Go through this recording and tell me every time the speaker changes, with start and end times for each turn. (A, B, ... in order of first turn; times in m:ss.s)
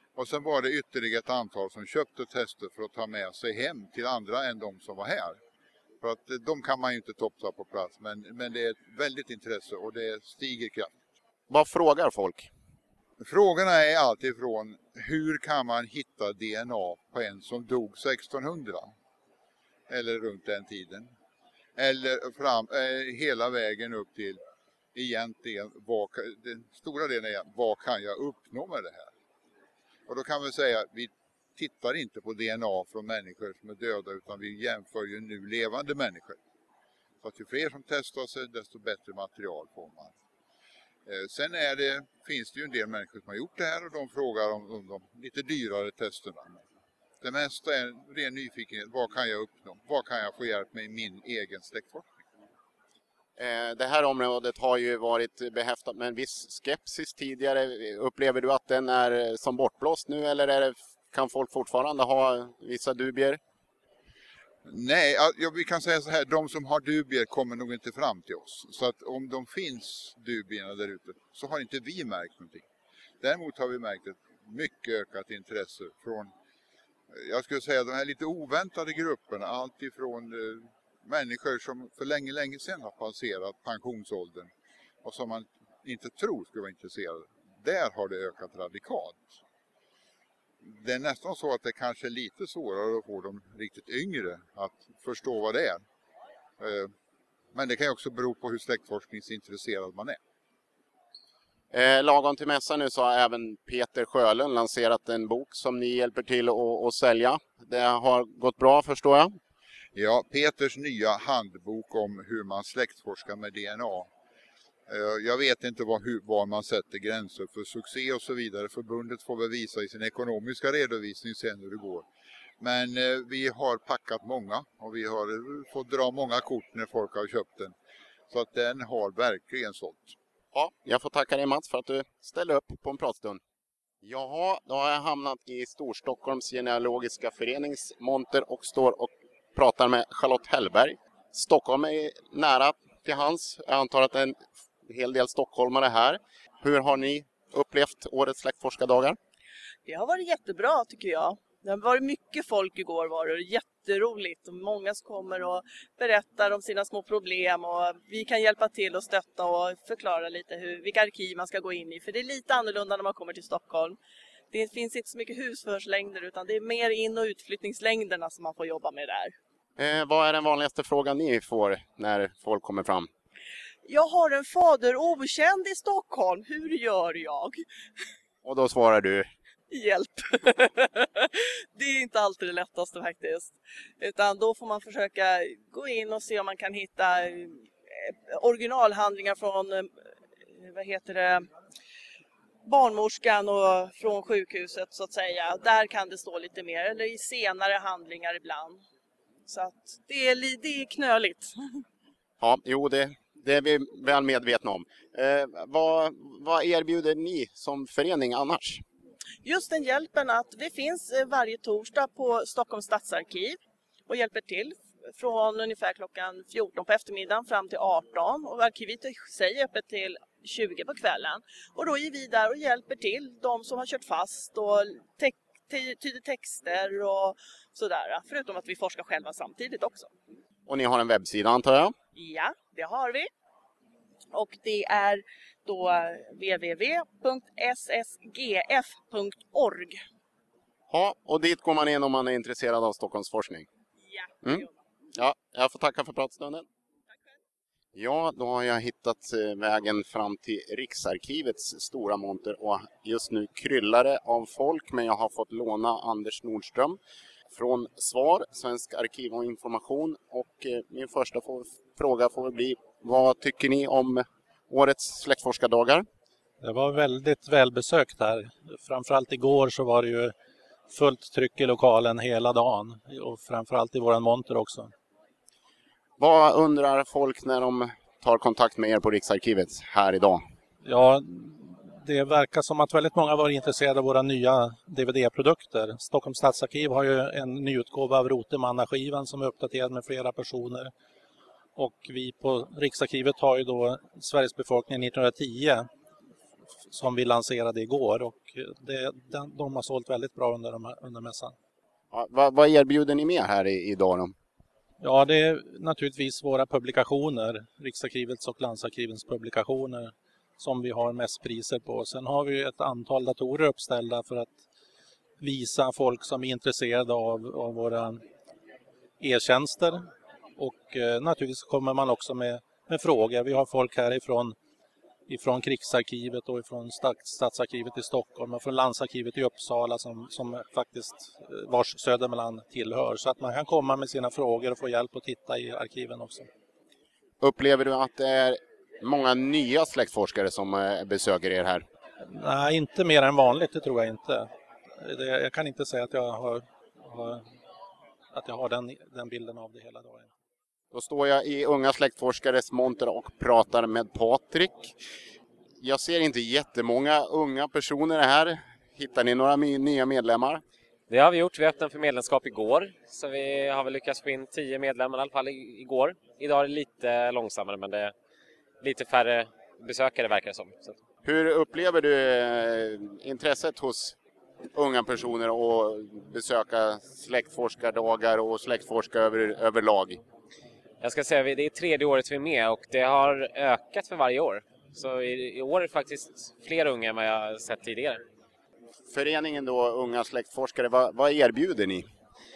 0:00.2-0:05.4 A
0:06.0-0:10.9 A
0:11.5-0:12.5 B
0:13.2-0:18.9 A
0:19.9-0:21.1 A
0:21.8-0:24.4 A
0:24.9-0:29.1 A
0:30.1-0:36.4 A
0:37.2-0:40.2 A
0:41.1-0:46.6 A
0:47.2-0:52.1 A
0:53.4-1:03.4 B
1:04.6-1:12.7 A
1:13.2-1:16.3 A
1:17.1-1:24.5 A
1:25.0-1:29.4 A
1:30.6-1:35.8 A
1:36.6-1:36.9 A
1:37.5-1:40.2 A
1:41.7-1:49.4 B
1:50.0-1:54.1 A
1:54.9-2:02.1 A
2:02.6-2:07.8 A
2:08.3-2:10.2 A
2:10.5-2:13.4 B
2:14.0-2:29.2 B
2:29.9-2:44.0 C
2:44.5-2:49.3 C
2:49.8-2:53.1 B
2:53.9-2:57.6 C
2:58.4-2:59.3 B
2:59.7-3:09.9 C
3:10.6-3:11.4 C
3:12.7-3:18.8 C
3:19.5-3:21.8 C
3:22.4-3:28.8 B
3:29.4-3:50.1 C
3:50.7-3:52.0 B
3:52.2-3:53.3 C
3:54.3-4:00.0 C
4:00.9-4:03.7 B
4:04.0-4:04.7 C
4:04.4-4:06.6 B
4:08.0-4:17.0 B
4:17.5-4:26.1 B
4:26.6-4:30.3 D
4:30.9-4:34.9 D
4:36.2-4:40.4 B
4:40.8-4:50.9 D
4:51.8-4:55.9 D
4:56.9-5:01.6 D
5:02.1-5:04.4 B
5:05.0-5:14.6 D
5:15.4-5:18.2 D
5:19.2-5:24.6 D
5:25.3-5:36.5 D
5:37.4-5:41.8 B
5:42.3-5:44.5 D
5:45.0-5:47.4 D
5:48.3-5:50.3 D
5:50.9-5:55.0 B
5:55.8-6:00.6 B
6:01.1-6:08.1 E
6:08.8-6:11.0 E
6:11.2-6:14.2 B
6:14.8-6:20.2 B
6:21.0-6:28.2 E
6:29.1-6:32.1 B